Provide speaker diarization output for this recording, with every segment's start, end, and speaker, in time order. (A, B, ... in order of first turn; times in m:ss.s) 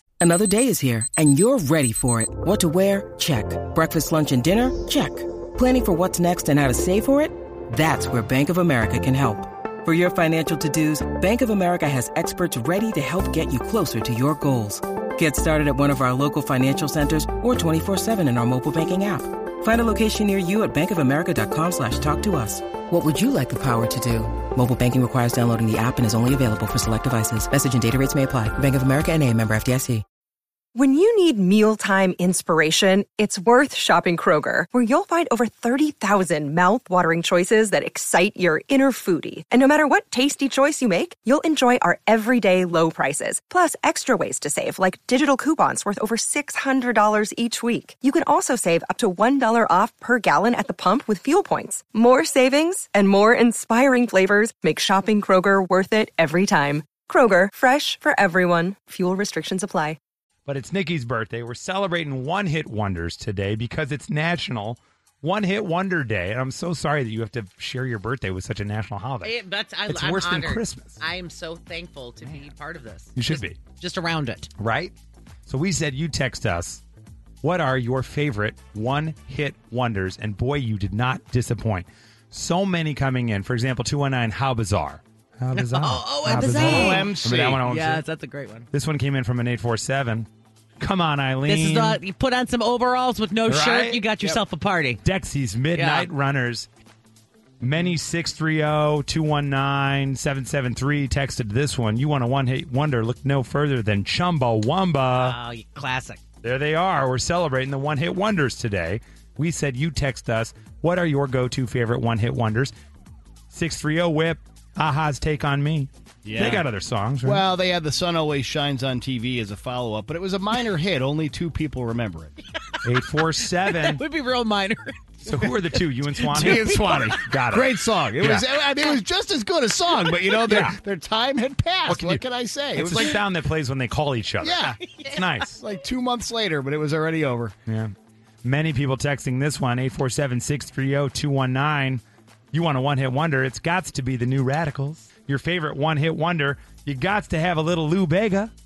0:00.2-0:30.0 A
0:30.8-1:00.0 B
1:00.5-1:09.4 C
1:09.2-1:14.5 D
1:09.9-1:11.0 C
1:13.2-1:13.6 C
1:14.6-1:14.9 C
1:15.5-1:16.8 C
1:17.4-1:28.0 C
1:25.6-1:28.7 D
1:26.4-1:27.6 E
1:28.7-1:30.3 C
1:30.8-1:32.0 C
1:31.4-1:35.0 D
1:33.5-1:34.4 C
1:35.0-1:36.7 C
1:35.8-1:36.1 D
1:37.6-1:45.4 C
1:45.1-1:46.2 D
1:46.4-1:52.7 C
1:53.5-1:57.4 C
1:56.2-1:56.7 E
1:57.2-2:02.3 E
2:02.8-2:04.0 C
2:03.6-2:07.2 D
2:05.2-2:08.4 C
2:06.2-2:13.2 E
2:10.4-2:10.8 C
2:11.9-2:15.6 C
2:14.4-2:14.8 E
2:15.6-2:17.5 E
2:17.7-2:17.9 C
2:18.4-2:28.5 C